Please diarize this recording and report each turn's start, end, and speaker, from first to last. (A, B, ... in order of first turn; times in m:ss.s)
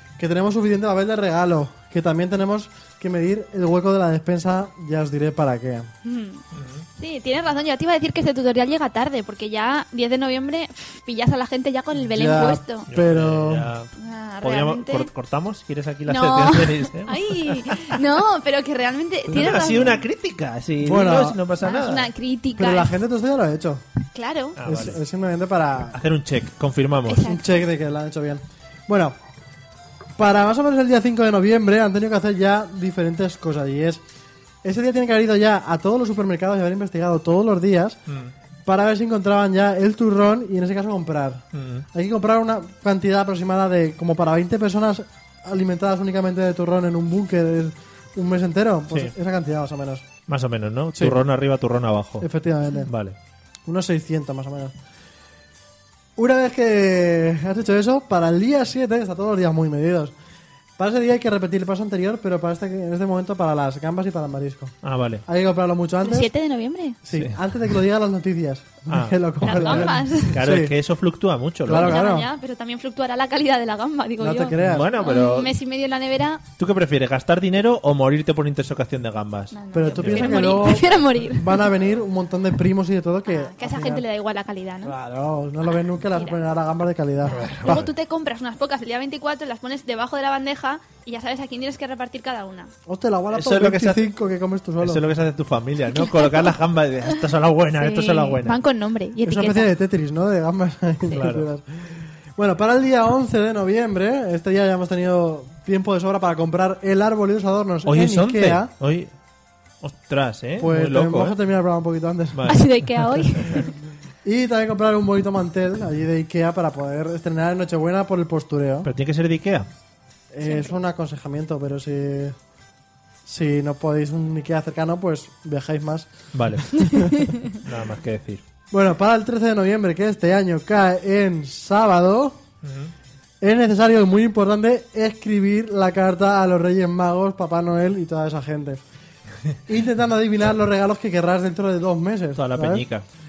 0:00.2-0:05.9 A
0:06.0-0:06.4 B
0:06.5-0:06.8 C
0:07.0-0:12.9 B
0:12.0-0:13.7 A
0:12.9-0:18.0 C
0:14.0-0:15.1 B
0:16.0-0:20.0 B
0:19.3-0:22.1 C
0:20.8-0:21.4 A
0:21.6-0:22.9 B
0:22.6-0:23.8 A
0:24.1-0:24.6 B
0:24.6-0:25.0 C
0:24.6-0:26.0 A
0:25.9-0:27.2 C
0:27.1-0:27.6 B
0:27.2-0:29.2 A
0:30.2-0:34.0 A
0:34.6-0:38.0 A
0:38.1-0:38.3 C
0:38.6-0:50.1 A
0:41.5-0:41.8 C
0:50.3-0:52.3 C
0:50.9-0:51.2 A
0:52.2-0:52.9 A
0:52.8-0:53.2 C
0:53.6-0:54.7 A
0:56.2-1:00.1 A
1:00.8-1:06.3 A
1:04.8-1:05.2 C
1:06.0-1:07.0 B
1:07.0-1:10.8 A
1:08.9-1:12.0 C
1:09.4-1:10.4 B
1:11.6-1:12.3 A
1:11.7-1:16.4 B
1:14.2-1:15.0 A
1:14.6-1:15.5 C
1:16.6-1:20.9 C
1:19.5-1:21.7 B
1:19.7-1:24.0 A
1:23.3-1:24.9 B
1:24.8-1:27.5 A
1:26.1-1:26.4 B
1:27.3-1:27.9 C
1:27.3-1:32.7 B
1:32.9-1:35.0 A
1:33.3-1:34.1 C
1:34.8-1:38.6 C
1:35.9-1:36.6 B
1:37.8-1:39.7 B
1:39.2-1:48.7 A
1:41.1-1:41.4 C
1:47.9-1:49.1 C
1:49.8-1:51.4 C
1:50.6-1:52.5 A
1:52.3-1:52.7 C
1:52.5-1:53.6 B
1:54.2-1:58.9 A
1:58.8-1:59.7 C
2:00.3-2:02.4 A
2:00.4-2:00.7 B
2:03.2-2:07.3 A
2:06.3-2:08.4 C
2:08.7-2:12.4 A
2:12.6-2:12.9 C
2:13.4-2:18.8 A
2:19.7-2:22.8 A
2:22.4-2:23.0 C